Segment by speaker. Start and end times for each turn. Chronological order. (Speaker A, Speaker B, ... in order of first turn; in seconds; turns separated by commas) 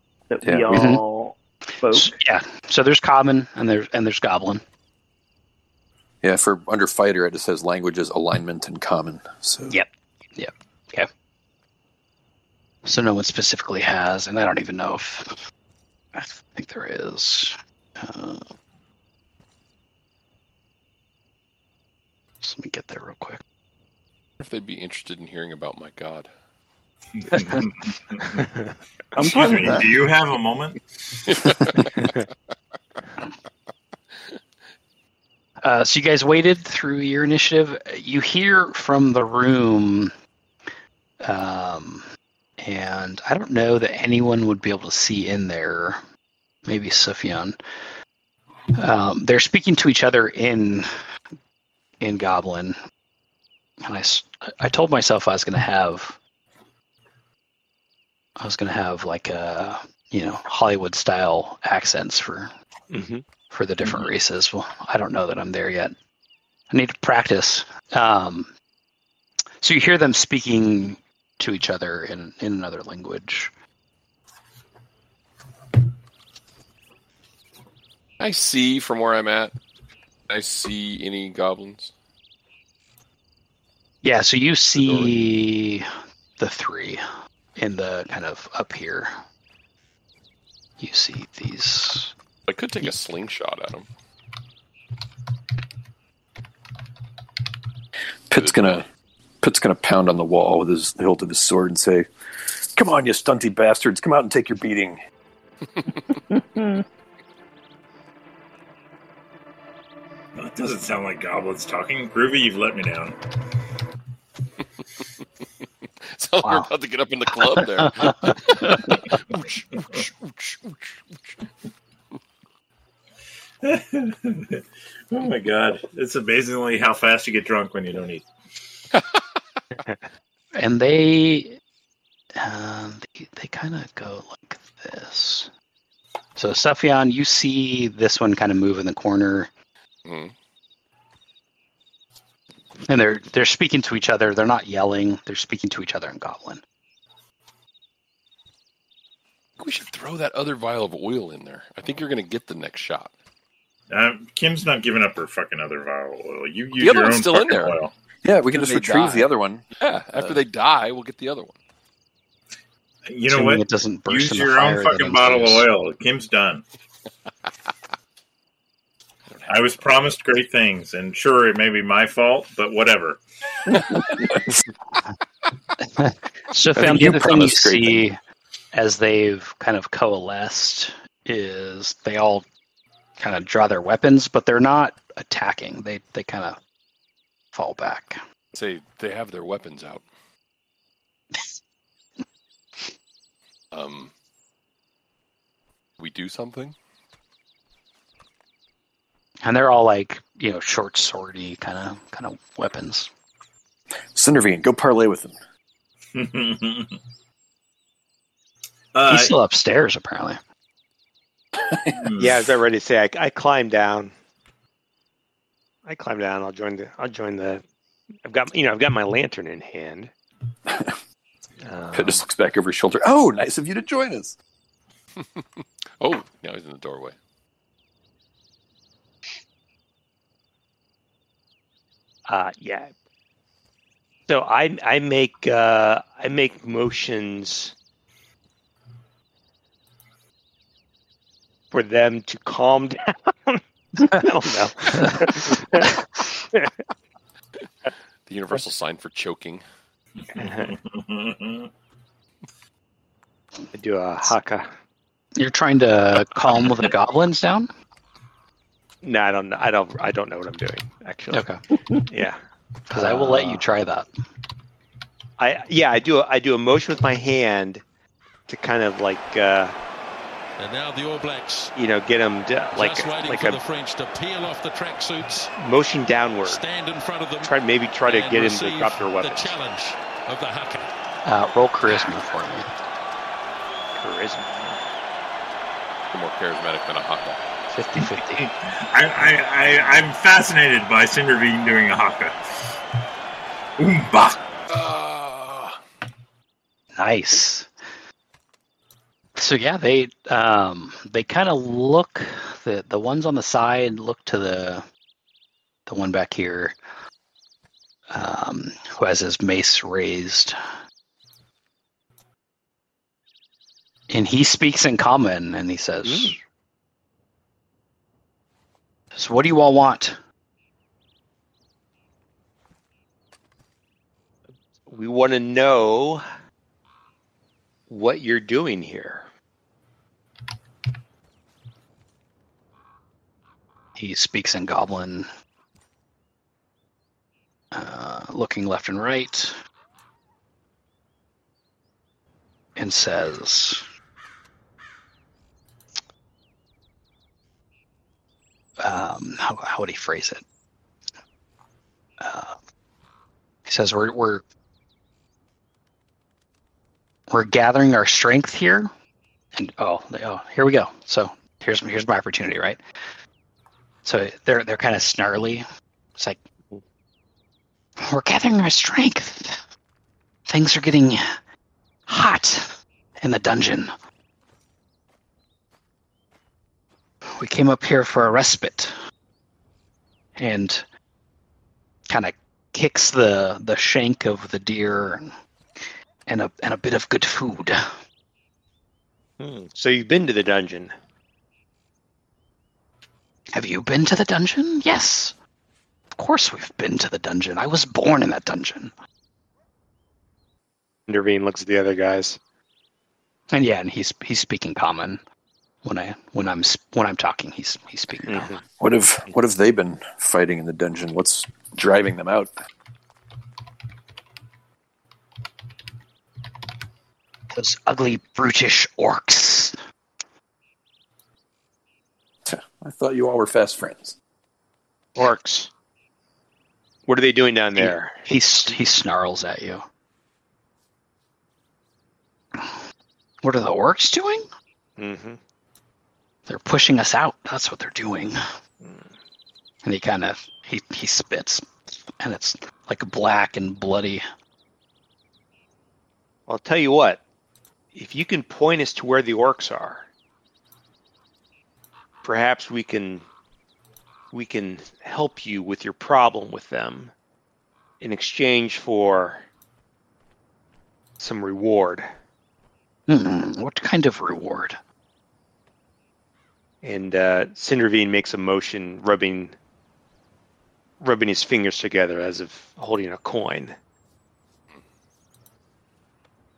Speaker A: 0.3-2.1, Speaker B: 0.4-0.7, Speaker C: 0.7-1.0, Speaker C: 1.9-4.6, Speaker B: 6.2-9.8, Speaker C: 9.7-11.1, Speaker C: 12.8-15.4, Speaker C: 16.1-18.4, Speaker C: 22.4-23.4, Speaker D: 24.4-26.3, Speaker E: 27.2-28.4, Speaker A: 29.1-29.8, Speaker E: 29.2-30.8, Speaker D: 31.3-32.2, Speaker C: 35.6-40.1, Speaker C: 41.2-42.0, Speaker C: 42.6-46.0, Speaker C: 46.6-47.6, Speaker C: 48.7-50.9, Speaker C: 52.0-52.8, Speaker C: 53.8-56.2, Speaker C: 58.4-62.5, Speaker F: 62.9-63.2, Speaker C: 63.5-65.9, Speaker C: 66.7-68.5, Speaker C: 69.6-73.5, Speaker D: 78.2-79.5, Speaker D: 80.3-81.9, Speaker C: 84.0-87.0, Speaker D: 84.8-85.2, Speaker C: 87.6-89.1, Speaker C: 90.8-92.1, Speaker D: 92.5-93.9, Speaker B: 98.3-98.8, Speaker D: 98.3-98.8, Speaker B: 99.4-102.1, Speaker B: 102.7-105.0, Speaker D: 105.8-106.2, Speaker A: 106.3-106.8, Speaker E: 110.4-113.1, Speaker D: 116.1-120.7, Speaker C: 116.4-116.7, Speaker C: 117.5-118.8, Speaker E: 123.6-128.2, Speaker D: 128.9-129.2, Speaker C: 130.5-131.6, Speaker C: 132.3-135.5, Speaker C: 136.3-139.5, Speaker D: 140.0-140.3, Speaker C: 142.8-146.6, Speaker D: 149.6-153.1, Speaker E: 153.9-157.9, Speaker D: 156.8-157.8, Speaker B: 158.2-160.4, Speaker C: 158.5-159.3, Speaker D: 159.8-161.6, Speaker E: 163.1-166.6, Speaker C: 163.3-165.7, Speaker D: 169.3-169.8, Speaker E: 169.4-173.2, Speaker A: 173.7-174.2, Speaker D: 173.8-174.2, Speaker C: 175.9-178.2, Speaker B: 176.8-178.0, Speaker C: 178.7-182.4, Speaker C: 183.2-186.6, Speaker C: 187.5-188.2, Speaker D: 188.5-190.0, Speaker D: 193.7-194.1, Speaker D: 196.0-196.7, Speaker C: 199.4-203.1, Speaker B: 204.1-205.4, Speaker E: 206.1-207.0, Speaker E: 208.9-209.3, Speaker C: 209.1-210.4, Speaker B: 211.7-212.2, Speaker E: 212.0-212.3, Speaker F: 212.2-214.1, Speaker F: 215.8-217.6, Speaker F: 218.2-220.1, Speaker B: 220.7-221.0, Speaker F: 221.6-222.2, Speaker B: 221.9-224.3, Speaker D: 225.2-227.2, Speaker F: 232.3-232.9, Speaker F: 234.3-237.7, Speaker F: 241.7-245.9, Speaker D: 248.2-249.6, Speaker F: 250.3-250.7, Speaker E: 250.4-251.7, Speaker F: 253.7-254.7, Speaker C: 255.3-257.7, Speaker F: 259.0-261.5, Speaker C: 261.3-261.6, Speaker F: 262.1-262.4, Speaker F: 262.9-263.6, Speaker C: 262.9-264.1, Speaker F: 265.4-267.8, Speaker F: 268.5-269.7, Speaker G: 270.6-271.7, Speaker F: 271.7-273.6, Speaker G: 272.7-275.5, Speaker F: 275.6-276.6, Speaker G: 276.4-280.9, Speaker F: 277.4-279.6, Speaker C: 281.2-282.7, Speaker F: 284.0-284.9, Speaker D: 286.1-287.4, Speaker C: 287.7-288.5, Speaker E: 288.8-292.4, Speaker E: 293.8-294.4, Speaker D: 294.7-295.8, Speaker C: 296.9-297.7, Speaker C: 299.4-304.8, Speaker C: 305.9-306.8, Speaker C: 308.1-310.6, Speaker C: 314.1-316.4, Speaker F: 316.0-316.3, Speaker C: 319.1-320.2, Speaker F: 324.9-326.2, Speaker F: 327.9-329.3, Speaker C: 333.9-335.3, Speaker C: 337.7-339.6, Speaker C: 342.8-343.8, Speaker C: 348.8-350.4, Speaker C: 352.2-352.6, Speaker C: 353.6-354.4, Speaker C: 357.3-358.9, Speaker C: 359.5-362.8, Speaker C: 364.0-365.6, Speaker C: 368.0-369.6, Speaker C: 370.5-371.2, Speaker C: 372.1-373.9, Speaker C: 377.3-378.9, Speaker C: 380.4-380.8, Speaker C: 382.1-387.9, Speaker F: 389.4-390.9, Speaker C: 393.5-395.3, Speaker C: 396.1-398.9, Speaker F: 401.1-402.4, Speaker C: 403.5-405.2, Speaker C: 405.8-408.5, Speaker F: 408.3-408.6, Speaker B: 408.8-412.5, Speaker C: 417.5-419.8, Speaker B: 422.4-424.1, Speaker F: 425.1-425.7, Speaker F: 427.1-428.2, Speaker C: 427.8-429.9, Speaker C: 432.5-432.8, Speaker C: 433.4-434.5, Speaker F: 435.0-435.4, Speaker C: 436.5-438.4, Speaker F: 438.8-439.1, Speaker C: 439.8-444.2, Speaker F: 446.5-447.2, Speaker F: 447.9-450.1, Speaker F: 452.2-453.2, Speaker F: 454.3-457.1, Speaker F: 458.0-459.4, Speaker F: 461.2-462.1, Speaker C: 463.1-464.8, Speaker F: 466.8-469.6, Speaker F: 471.0-473.8